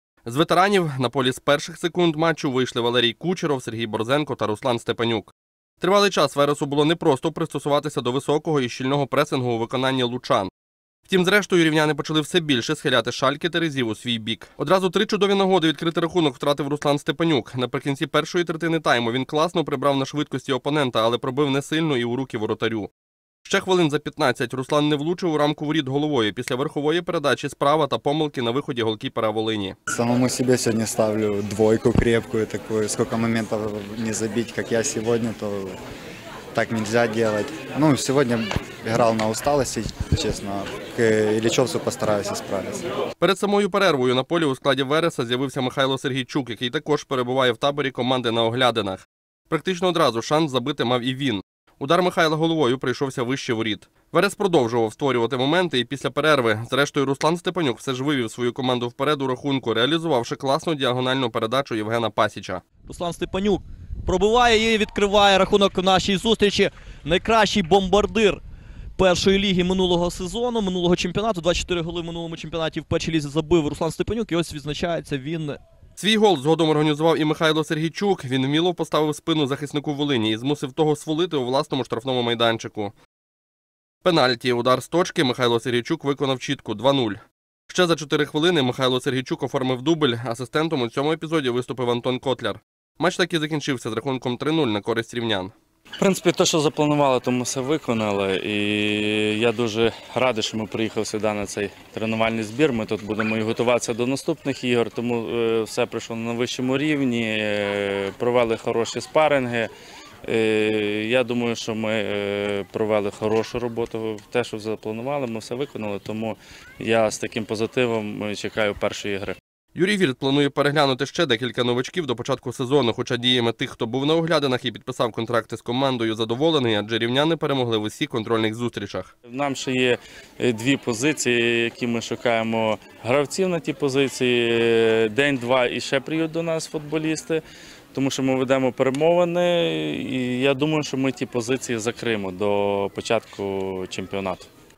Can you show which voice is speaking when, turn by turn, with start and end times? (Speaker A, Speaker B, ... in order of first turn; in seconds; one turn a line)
Speaker A: 0.2-10.5
Speaker A: 11.1-22.9
Speaker A: 23.4-29.8
Speaker B: 29.9-35.8
Speaker B: 36.5-42.8
Speaker A: 43.2-62.6
Speaker C: 62.9-68.4
Speaker C: 69.0-75.6
Speaker A: 76.0-82.9
Speaker A: 84.0-95.5
Speaker D: 96.0-109.7
Speaker D: 110.2-119.4
Speaker A: 119.8-129.1
Speaker D: 129.3-137.4
Speaker D: 137.9-144.5